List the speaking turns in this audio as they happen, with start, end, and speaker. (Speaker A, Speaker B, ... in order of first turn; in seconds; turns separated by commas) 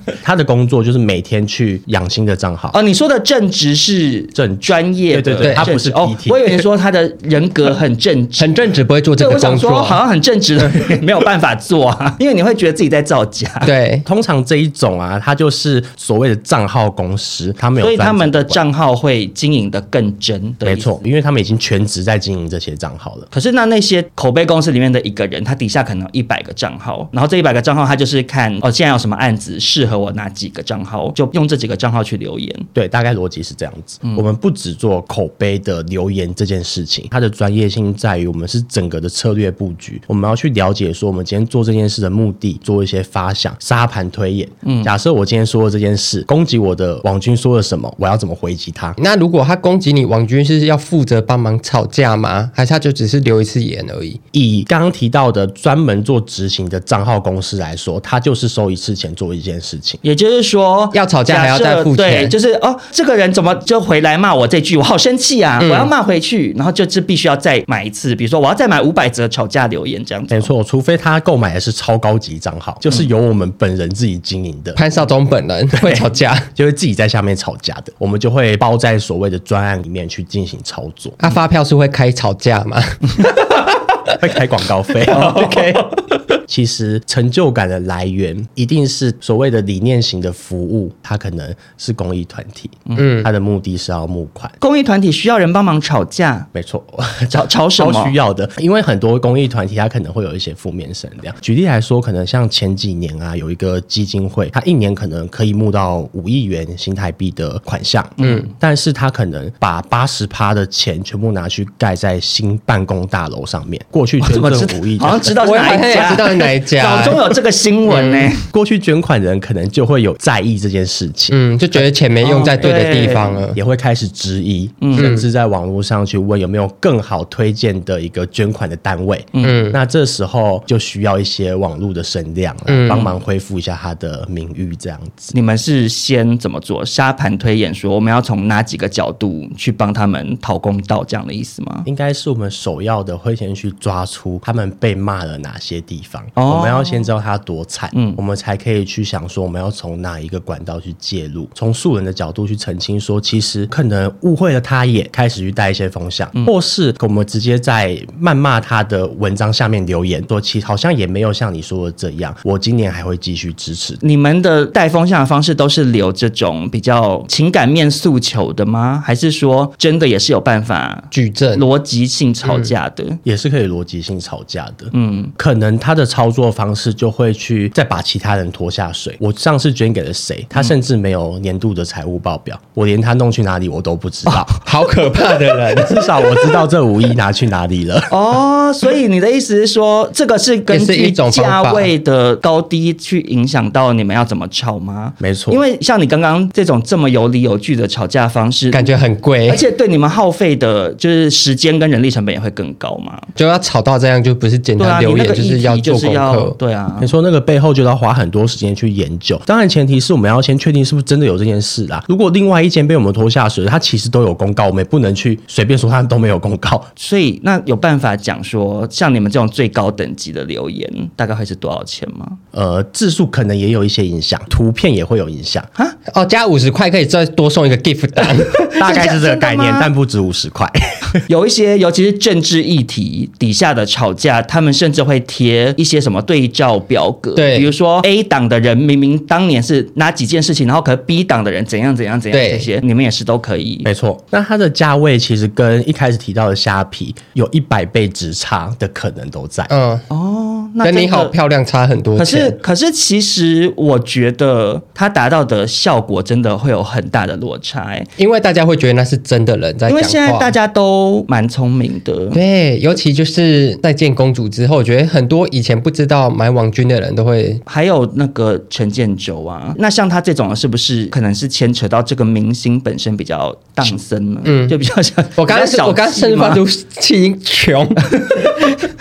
Speaker A: 0.2-2.8, Speaker B: 2.7-8.5, Speaker A: 4.3-6.6, Speaker C: 5.4-5.7, Speaker C: 8.4-10.0, Speaker B: 9.2-13.7, Speaker C: 13.6-14.0, Speaker A: 14.0-18.6, Speaker B: 17.8-21.0, Speaker A: 20.6-23.3, Speaker B: 23.3-32.6, Speaker A: 32.7-49.0, Speaker B: 44.6-44.9, Speaker C: 49.0-54.2, Speaker A: 54.3-60.0, Speaker B: 60.0-70.5, Speaker C: 60.9-62.3, Speaker C: 65.6-65.9, Speaker A: 70.3-74.8, Speaker C: 74.8-76.5, Speaker A: 75.7-81.2, Speaker C: 81.2-83.6, Speaker A: 84.2-85.5, Speaker C: 85.1-85.8, Speaker B: 85.1-85.8, Speaker A: 86.5-94.5, Speaker C: 93.0-93.3, Speaker B: 94.6-96.5, Speaker A: 96.5-116.2, Speaker B: 97.3-98.1, Speaker B: 108.2-108.5, Speaker B: 114.2-118.4, Speaker C: 115.4-117.3, Speaker C: 117.9-118.3, Speaker A: 118.5-121.8, Speaker C: 121.3-123.6, Speaker B: 122.2-123.4, Speaker A: 122.5-135.3, Speaker B: 124.8-125.2, Speaker C: 125.0-125.2, Speaker B: 129.3-129.6, Speaker C: 129.4-129.8, Speaker C: 132.7-133.1, Speaker B: 135.3-141.9, Speaker A: 141.8-164.0, Speaker B: 146.4-147.1, Speaker B: 147.9-148.2, Speaker B: 164.0-173.2, Speaker C: 171.1-171.6, Speaker C: 172.4-172.7, Speaker A: 173.2-184.5, Speaker B: 174.9-175.3, Speaker C: 184.6-186.1, Speaker A: 185.7-188.1, Speaker B: 188.1-198.9, Speaker C: 190.7-191.9, Speaker A: 195.2-195.6, Speaker C: 198.7-199.6, Speaker B: 199.5-203.2, Speaker C: 203.3-206.6, Speaker B: 204.8-207.1, Speaker A: 207.0-216.9, Speaker B: 217.0-222.4, Speaker A: 222.5-225.7, Speaker C: 226.1-228.7, Speaker A: 228.8-231.2, Speaker B: 228.8-229.9, Speaker B: 231.3-243.9, Speaker C: 237.3-237.7, Speaker C: 242.3-242.7, Speaker A: 243.8-249.7, Speaker C: 249.7-250.0, Speaker B: 250.1-251.3, Speaker C: 250.8-252.6, Speaker B: 252.2-258.1, Speaker C: 258.2-260.5, Speaker B: 259.9-262.4, Speaker C: 262.3-267.6, Speaker B: 267.6-276.6, Speaker C: 274.4-274.8, Speaker C: 275.4-278.7, Speaker B: 278.1-278.9